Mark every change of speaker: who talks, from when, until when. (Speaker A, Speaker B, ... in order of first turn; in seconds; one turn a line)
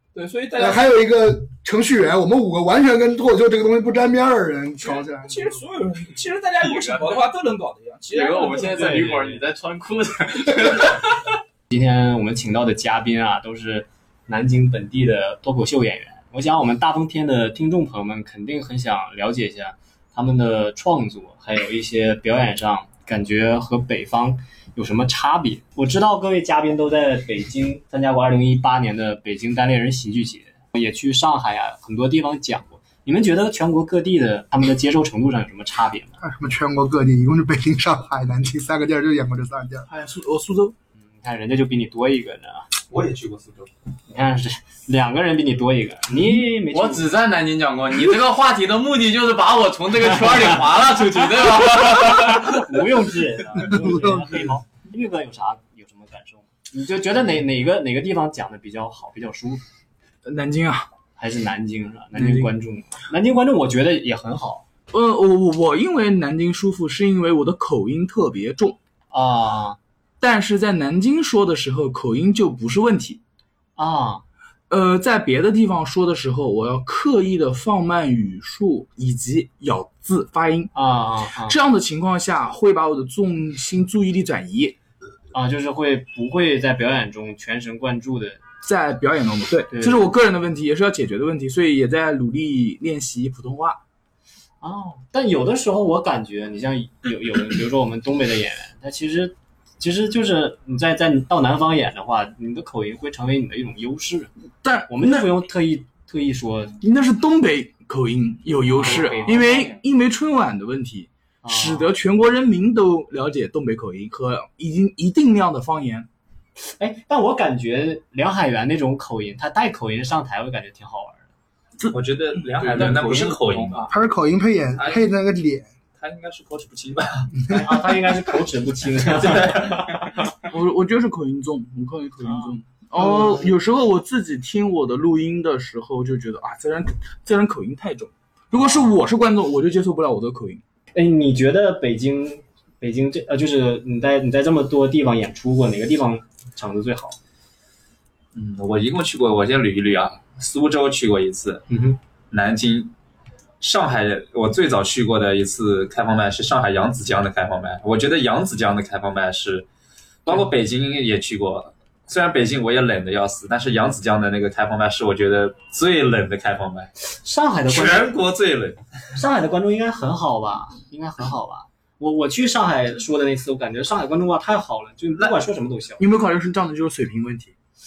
Speaker A: 0.1-0.8
Speaker B: 0.6-5.6
Speaker A: 4.8-9.0
Speaker C: 6.6-7.2
Speaker C: 8.1-11.1
Speaker D: 8.7-9.4
Speaker D: 11.7-36.2
Speaker B: 36.2-39.9
Speaker A: 39.9-40.7
Speaker D: 41.0-42.7
Speaker E: 42.9-43.7
Speaker D: 44.1-47.1
Speaker C: 46.7-52.6
Speaker D: 52.0-59.6
Speaker B: 53.6-54.3
Speaker A: 60.2-60.9
Speaker D: 61.2-64.6
Speaker A: 62.1-62.5
Speaker A: 64.9-68.8
Speaker D: 69.1-69.8
Speaker A: 70.2-73.2
Speaker D: 73.8-74.2
Speaker A: 74.7-80.7
Speaker D: 80.7-81.6
Speaker A: 81.4-84.8
Speaker D: 85.3-88.4
Speaker A: 88.6-93.8
Speaker D: 89.7-90.1
Speaker D: 94.6-104.3
Speaker A: 104.6-105.3
Speaker D: 104.9-106.8
Speaker A: 106.8-116.1
Speaker C: 108.5-109.8
Speaker D: 108.7-109.5
Speaker D: 111.4-111.9
Speaker D: 116.6-121.3
Speaker A: 121.8-122.8
Speaker E: 121.9-123.9
Speaker C: 122.6-123.9
Speaker B: 123.9-125.7
Speaker E: 124.8-125.0
Speaker E: 126.0-127.6
Speaker D: 127.5-129.8
Speaker E: 129.0-130.2
Speaker A: 130.5-140.6
Speaker D: 132.2-133.5
Speaker D: 138.5-138.9
Speaker D: 140.9-147.2
Speaker E: 148.3-151.6
Speaker D: 151.7-152.0
Speaker E: 152.3-152.9
Speaker E: 153.6-159.7
Speaker E: 160.2-166.9
Speaker D: 167.1-168.1
Speaker E: 167.7-168.8
Speaker D: 169.1-176.1
Speaker A: 176.0-177.5